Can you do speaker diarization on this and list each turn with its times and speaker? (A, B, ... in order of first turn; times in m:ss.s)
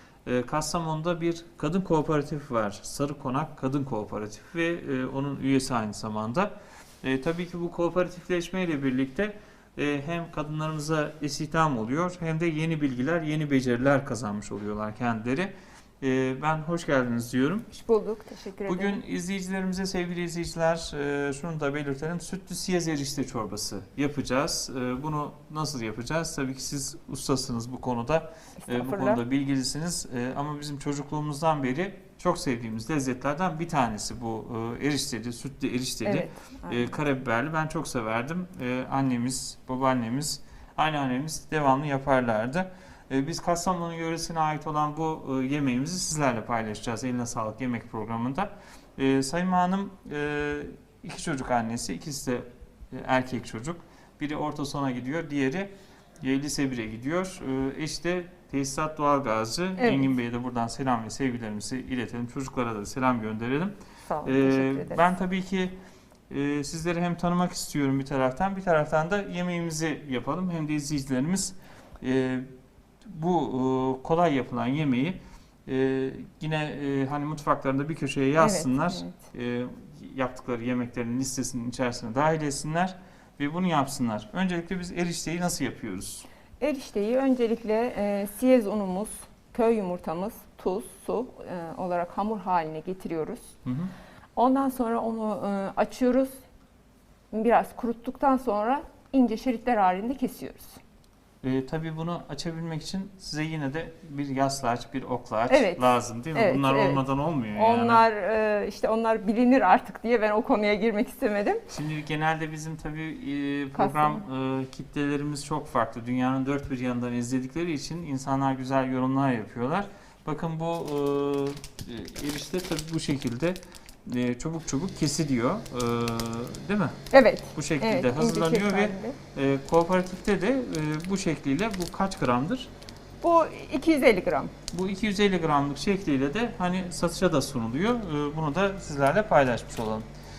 0:00.2-0:17.7 A
0:17.7-0:19.0 B
0:18.7-1:05.8 A
0:28.6-0:29.2 B
0:36.0-0:36.9 B
0:59.8-1:00.1 B
1:04.1-1:05.0 B
1:06.3-1:12.5 A
1:13.0-1:26.3 A
1:18.4-1:19.2 B
1:26.6-1:33.5 B
1:33.6-1:33.9 A
1:34.4-1:36.3 B
1:37.3-1:40.8 B
1:41.4-1:48.0 A
1:45.5-1:51.6 B
1:51.7-2:07.0 A
1:53.8-1:54.2 B
2:07.1-2:09.2 B
2:07.6-2:12.7 A
2:13.2-2:14.5 B
2:14.7-2:20.1 A